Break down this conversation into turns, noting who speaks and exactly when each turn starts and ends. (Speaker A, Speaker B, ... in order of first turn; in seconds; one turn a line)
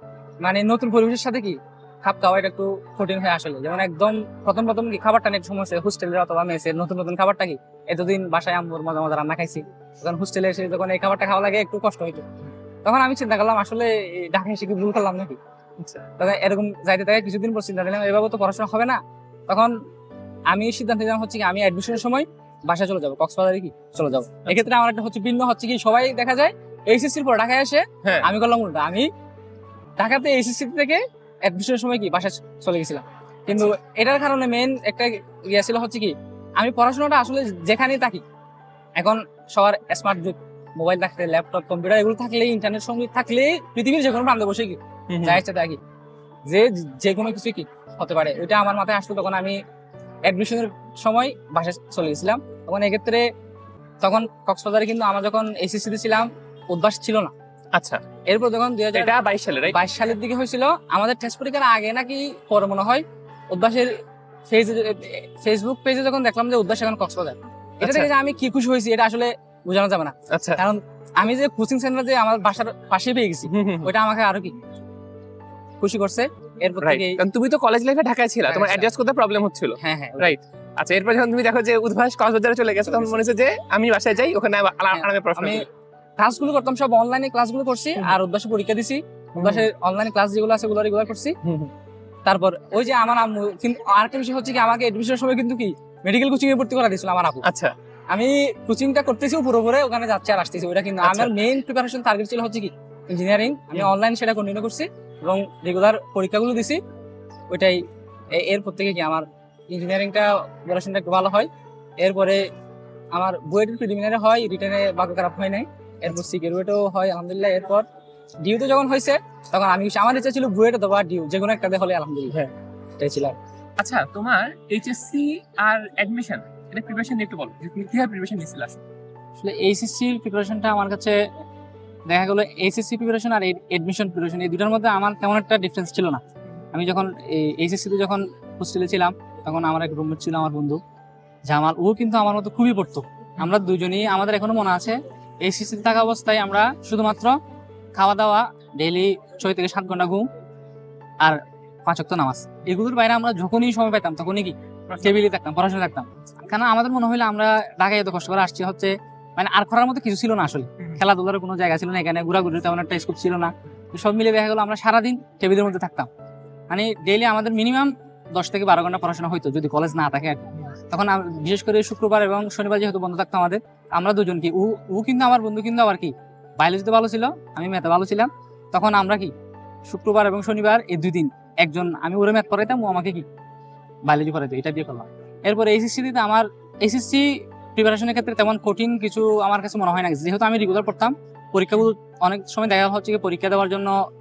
Speaker A: 0.4-12.3
Speaker A: 12.8-15.4
Speaker A: 16.2-19.7
Speaker A: 20.5-29.1
Speaker B: 28.0-28.3
Speaker A: 30.0-38.2
Speaker A: 39.0-45.8
Speaker B: 45.1-45.4
Speaker A: 46.5-49.6
Speaker A: 50.3-53.2
Speaker A: 54.0-57.3
Speaker B: 57.7-58.0
Speaker A: 58.3-59.1
Speaker B: 58.9-59.8
Speaker A: 59.7-63.9
Speaker A: 64.5-74.6
Speaker B: 67.8-68.1
Speaker B: 70.3-70.6
Speaker B: 73.5-73.9
Speaker A: 75.8-77.2
Speaker B: 76.8-85.6
Speaker A: 78.5-78.9
Speaker A: 79.8-80.4
Speaker A: 84.9-85.7
Speaker A: 86.2-91.4
Speaker B: 89.4-89.7
Speaker B: 91.4-91.7
Speaker A: 92.2-97.5
Speaker B: 97.4-97.7
Speaker A: 98.1-106.8
Speaker B: 101.0-101.3
Speaker A: 107.5-107.8
Speaker A: 108.3-112.4
Speaker A: 113.1-117.8
Speaker A: 118.4-122.4
Speaker A: 123.0-123.3
Speaker B: 123.8-128.8
Speaker A: 129.4-131.2
Speaker A: 132.1-136.2
Speaker A: 136.7-140.8
Speaker A: 141.5-147.4
Speaker A: 147.9-150.3
Speaker A: 151.2-166.1
Speaker B: 154.9-155.3
Speaker A: 166.7-179.3
Speaker A: 179.9-183.2
Speaker A: 184.1-193.9